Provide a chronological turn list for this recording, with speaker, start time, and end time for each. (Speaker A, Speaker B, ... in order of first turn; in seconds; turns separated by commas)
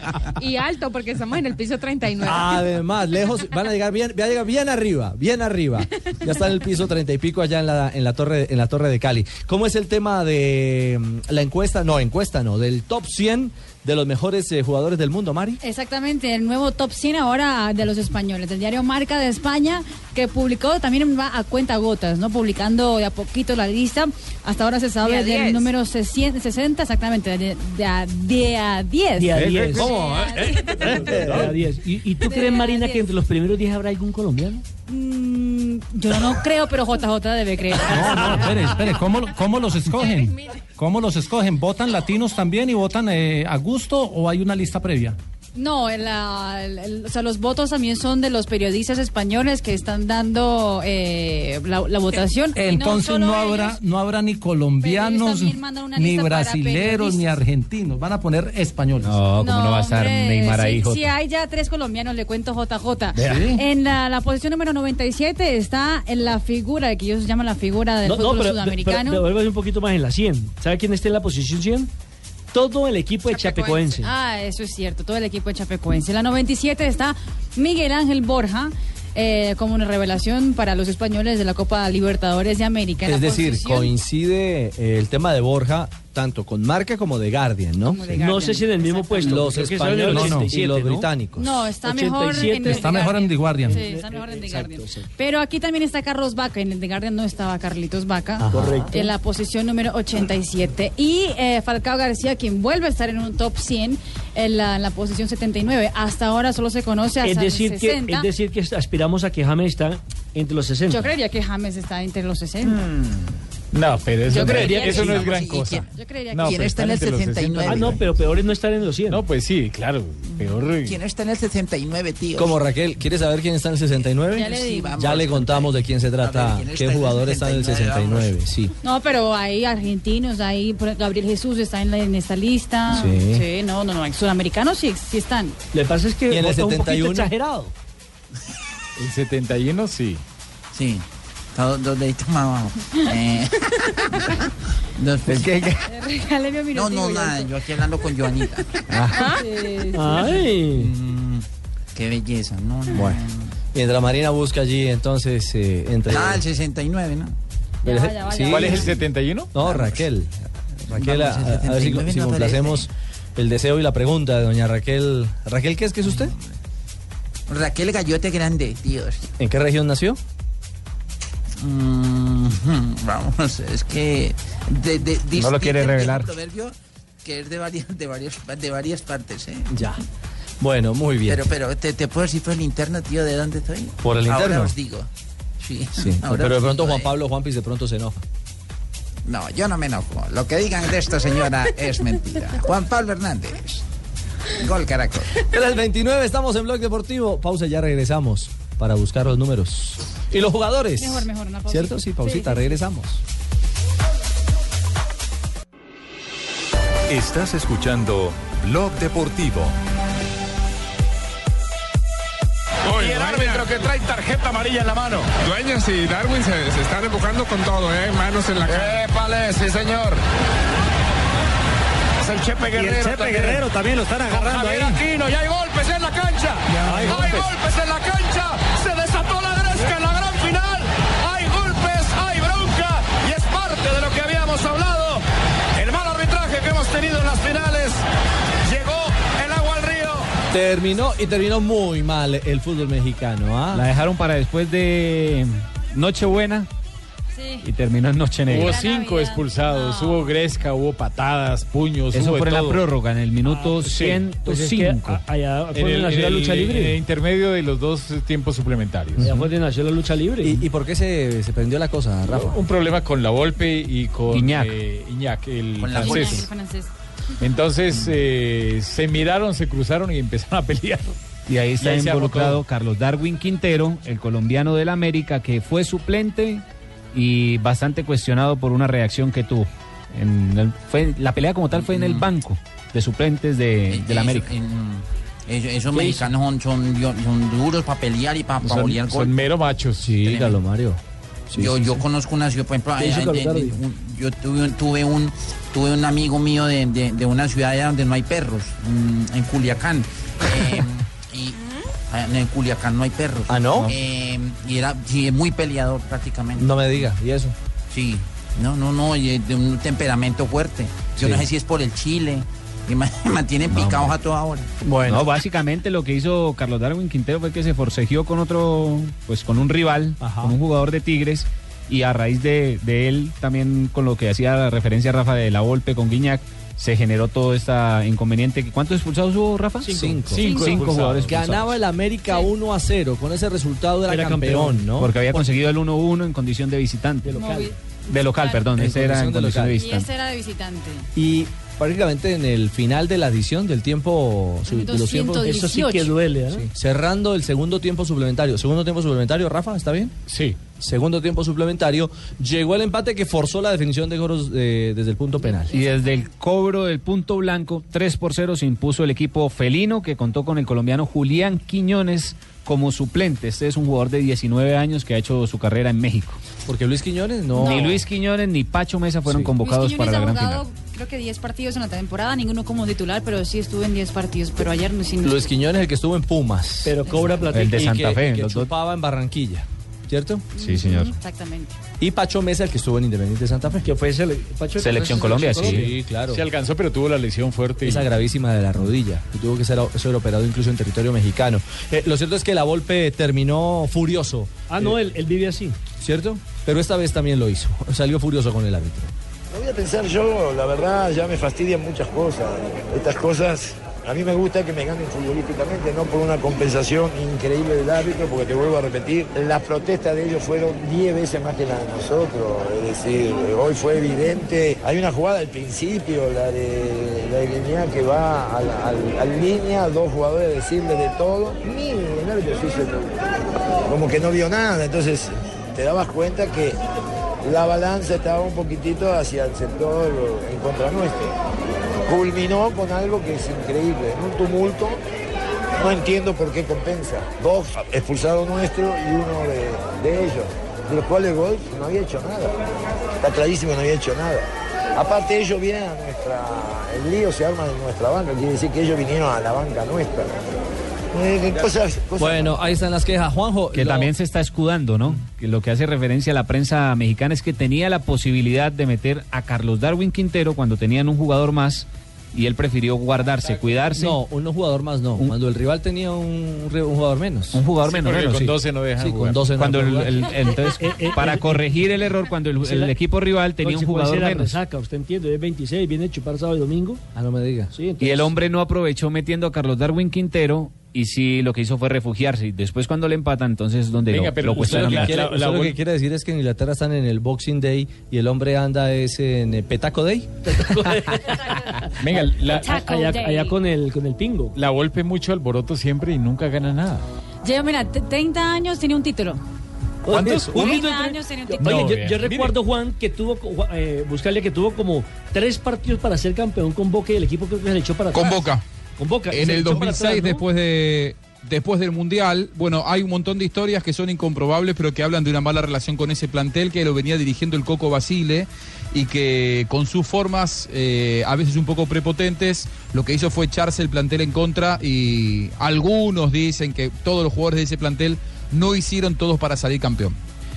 Speaker A: 0.4-2.6, Speaker B: 2.2-15.6, Speaker C: 15.6-31.2, Speaker A: 25.0-25.7, Speaker D: 29.2-29.9, Speaker B: 29.7-31.5, Speaker D: 31.1-34.6, Speaker C: 32.2-33.1, Speaker C: 34.9-38.8, Speaker E: 37.8-45.2, Speaker C: 45.5-53.8, Speaker E: 52.5-59.2, Speaker C: 54.8-57.3, Speaker F: 59.0-61.1, Speaker C: 59.4-69.2, Speaker E: 63.1-63.6, Speaker D: 68.0-71.9, Speaker D: 72.5-74.1, Speaker C: 73.6-83.9, Speaker B: 83.0-88.3, Speaker C: 87.8-89.4, Speaker D: 88.2-91.1, Speaker B: 89.2-91.7, Speaker E: 90.1-90.5, Speaker C: 91.4-108.3, Speaker D: 91.8-93.1, Speaker E: 92.5-93.8, Speaker D: 93.7-95.1, Speaker B: 98.4-98.9, Speaker D: 98.5-99.1, Speaker D: 107.2-111.1, Speaker C: 110.9-112.9, Speaker G: 113.7-118.0, Speaker C: 114.3-115.4, Speaker H: 114.3-115.9, Speaker D: 114.5-115.0, Speaker C: 115.9-116.7, Speaker H: 116.4-118.0, Speaker D: 117.7-119.2, Speaker G: 119.1-121.0, Speaker H: 120.3-122.6, Speaker B: 122.4-128.7, Speaker C: 124.3-125.0, Speaker H: 124.3-128.3, Speaker C: 128.8-135.6, Speaker B: 132.9-133.4, Speaker D: 135.7-137.7, Speaker B: 136.3-137.3, Speaker G: 139.0-140.2, Speaker H: 140.7-144.4, Speaker H: 145.0-145.6, Speaker B: 145.3-145.7, Speaker C: 145.8-147.6, Speaker H: 146.7-148.8, Speaker B: 148.9-149.2, Speaker C: 149.1-150.4, Speaker A: 149.2-149.4, Speaker D: 149.9-150.9, Speaker H: 150.7-153.5, Speaker B: 152.9-153.2, Speaker B: 153.7-156.4, Speaker H: 156.1-157.3, Speaker C: 157.8-159.0, Speaker B: 157.8-159.0, Speaker G: 158.5-159.6, Speaker B: 159.5-166.3, Speaker H: 159.6-160.1, Speaker H: 160.9-162.9, Speaker H: 166.1-166.5, Speaker H: 167.5-169.3, Speaker B: 169.4-170.2, Speaker H: 171.6-179.7, Speaker F: 175.3-176.3, Speaker B: 179.7-180.0, Speaker B: 180.6-181.4, Speaker H: 181.3-185.1, Speaker B: 184.0-184.7, Speaker H: 185.6-187.1, Speaker B: 186.0-188.2, Speaker H: 189.3-193.8, Speaker H: 194.6-195.4, Speaker B: 195.5-203.2, Speaker C: 201.0-202.8, Speaker I: 207.1-209.8, Speaker J: 212.9-220.2, Speaker J: 222.2-235.2, Speaker J: 235.8-238.0, Speaker J: 238.7-240.3, Speaker B: 240.5-243.9, Speaker F: 243.7-246.7, Speaker C: 247.3-247.7, Speaker F: 247.6-248.8, Speaker G: 248.5-252.9, Speaker C: 248.5-250.4, Speaker F: 252.1-255.2, Speaker D: 253.5-257.0, Speaker G: 253.9-254.2, Speaker G: 255.7-259.3, Speaker B: 259.2-259.4, Speaker D: 259.2-260.6, Speaker B: 260.4-262.6, Speaker G: 262.3-266.5, Speaker F: 264.3-264.8, Speaker H: 265.8-266.5, Speaker C: 265.9-266.9, Speaker G: 267.4-271.1, Speaker F: 271.5-276.6, Speaker G: 271.8-272.6, Speaker F: 277.1-284.5, Speaker H: 281.7-282.3, Speaker H: 283.9-289.4, Speaker D: 285.9-286.3, Speaker G: 288.6-290.1, Speaker B: 290.0-292.0, Speaker H: 290.2-290.6, Speaker H: 291.6-307.1, Speaker D: 293.0-293.8, Speaker B: 303.5-304.0, Speaker B: 306.6-307.6, Speaker H: 307.9-314.7, Speaker B: 311.2-311.5, Speaker F: 313.7-314.1, Speaker B: 314.8-315.3, Speaker F: 315.1-330.0, Speaker B: 320.2-320.6, Speaker D: 329.8-330.2, Speaker B: 329.9-335.4, Speaker G: 330.3-331.4, Speaker C: 330.4-330.9, Speaker F: 330.5-331.7, Speaker D: 334.1-334.9, Speaker F: 335.0-337.4, Speaker D: 337.2-337.7, Speaker C: 337.3-338.7, Speaker F: 338.1-340.1, Speaker B: 338.8-339.8, Speaker C: 339.8-341.1, Speaker B: 341.1-345.5, Speaker C: 344.7-346.1, Speaker D: 345.4-346.7, Speaker B: 346.5-350.1, Speaker G: 350.3-350.6, Speaker B: 350.8-355.7, Speaker F: 355.7-366.4, Speaker B: 366.7-368.0, Speaker C: 367.5-368.0, Speaker F: 367.6-370.6, Speaker B: 369.3-369.5, Speaker C: 369.6-375.5, Speaker B: 375.2-380.5, Speaker D: 376.9-377.8, Speaker F: 377.5-378.7, Speaker C: 380.6-381.8, Speaker F: 380.6-381.1, Speaker B: 382.0-384.0, Speaker D: 383.8-385.8, Speaker F: 384.8-385.8, Speaker B: 385.5-386.4, Speaker G: 386.2-388.1, Speaker B: 387.8-394.9, Speaker D: 394.7-395.8, Speaker B: 396.0-399.1, Speaker K: 399.5-423.2, Speaker K: 423.9-426.8, Speaker K: 427.4-431.3, Speaker K: 432.1-435.0, Speaker K: 435.8-442.6, Speaker K: 443.2-450.3, Speaker K: 451.1-452.7, Speaker B: 452.2-454.1, Speaker F: 453.7-464.2, Speaker B: 464.0-467.6, Speaker F: 467.5-468.5, Speaker G: 467.8-469.6, Speaker B: 468.3-470.2, Speaker F: 469.5-474.6, Speaker D: 470.6-471.9, Speaker D: 472.6-472.9, Speaker D: 473.6-477.0, Speaker B: 477.1-477.7, Speaker D: 477.7-478.3, Speaker F: 478.0-485.2, Speaker G: 484.1-485.8, Speaker B: 484.6-490.5, Speaker D: 490.4-491.9, Speaker G: 492.0-492.8, Speaker C: 492.4-493.6, Speaker D: 492.7-494.6, Speaker G: 494.6-497.1, Speaker C: 497.4-499.4, Speaker D: 500.1-510.4, Speaker G: 500.1-500.9, Speaker C: 500.4-502.0, Speaker G: 501.6-502.6, Speaker L: 508.1-508.6, Speaker L: 509.3-530.2